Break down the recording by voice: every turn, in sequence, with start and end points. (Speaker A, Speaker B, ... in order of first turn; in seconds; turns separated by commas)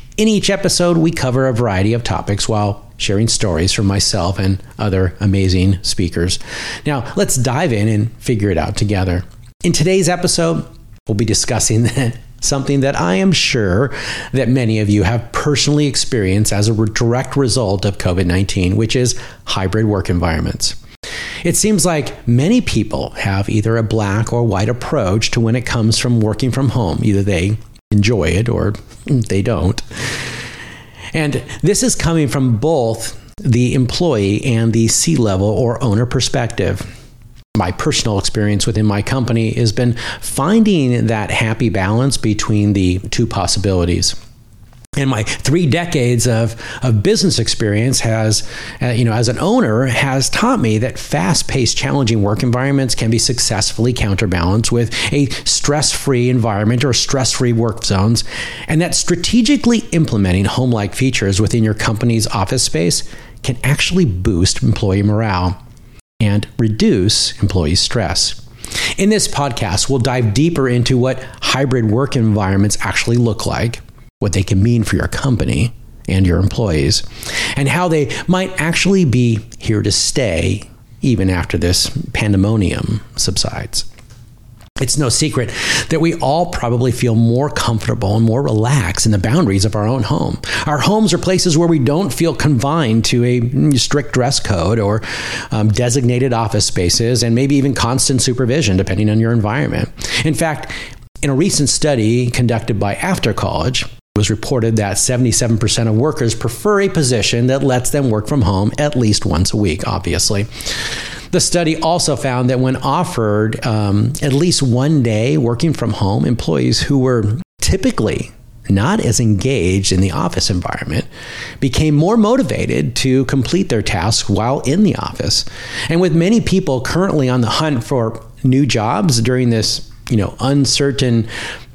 Speaker A: 0.2-20.8, Speaker A: 21.4-29.8, Speaker A: 31.1-36.9, Speaker A: 37.5-44.1, Speaker A: 45.0-65.6, Speaker A: 66.2-68.4, Speaker A: 69.0-83.9, Speaker A: 84.8-110.5, Speaker A: 111.3-121.1, Speaker A: 121.6-131.3